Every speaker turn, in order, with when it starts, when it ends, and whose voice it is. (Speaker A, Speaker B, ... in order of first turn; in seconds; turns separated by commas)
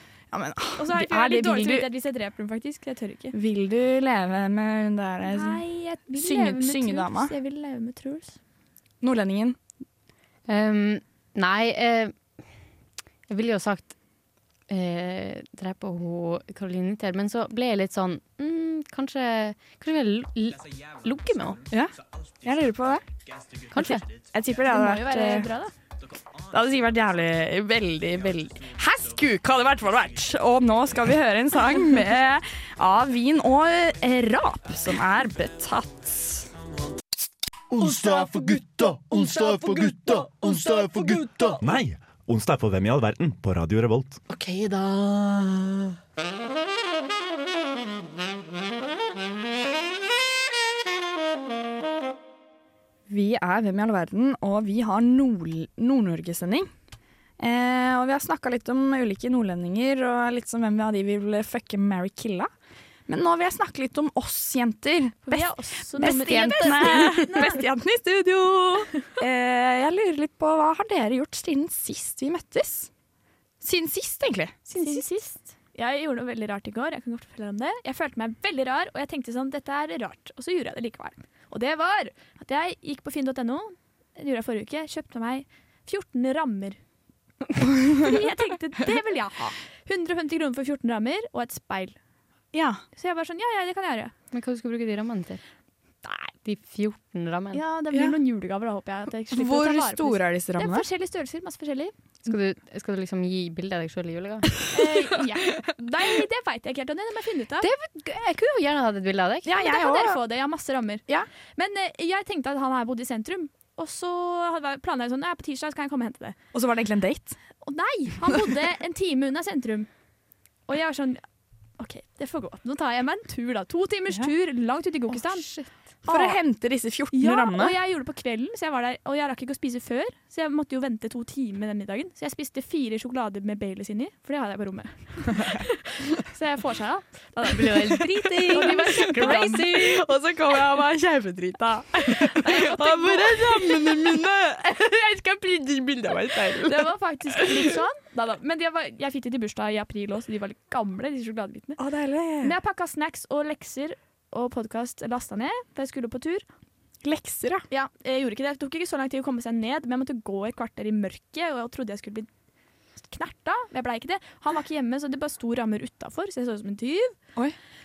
Speaker A: 0.3-1.9, Speaker B: 0.8-3.4, Speaker A: 3.3-5.6, Speaker B: 5.3-8.4, Speaker A: 6.1-7.3, Speaker A: 9.0-9.6, Speaker C: 10.5-12.1, Speaker C: 13.3-13.9, Speaker C: 14.7-21.6, Speaker A: 21.7-23.1, Speaker C: 23.7-24.1, Speaker A: 23.7-25.5, Speaker B: 24.7-25.7, Speaker A: 26.5-36.5, Speaker D: 37.7-41.7, Speaker E: 41.6-44.2, Speaker D: 44.3-45.4, Speaker A: 53.1-56.7, Speaker A: 57.4-62.5, Speaker A: 63.1-72.9, Speaker B: 65.3-67.6, Speaker A: 73.6-74.6, Speaker C: 74.7-75.0, Speaker B: 74.8-86.8, Speaker B: 88.0-92.0, Speaker A: 92.5-92.8, Speaker B: 93.0-94.1, Speaker C: 94.3-95.4, Speaker C: 96.4-97.6, Speaker B: 97.5-101.9, Speaker A: 99.3-100.9, Speaker C: 102.3-104.5, Speaker B: 104.7-107.7, Speaker C: 107.6-109.5, Speaker A: 109.5-110.2, Speaker B: 109.6-111.0, Speaker B: 111.6-116.4, Speaker A: 116.5-117.4, Speaker B: 117.6-119.9, Speaker B: 120.7-121.2, Speaker B: 121.8-125.5, Speaker C: 125.2-125.7, Speaker B: 126.0-126.4, Speaker A: 126.1-127.8, Speaker B: 127.1-140.0, Speaker C: 137.5-139.7, Speaker A: 138.4-147.7, Speaker B: 142.3-143.9, Speaker B: 146.7-151.8, Speaker A: 151.8-152.6, Speaker B: 152.4-156.5, Speaker A: 157.0-157.7, Speaker B: 157.7-162.3, Speaker B: 163.0-167.2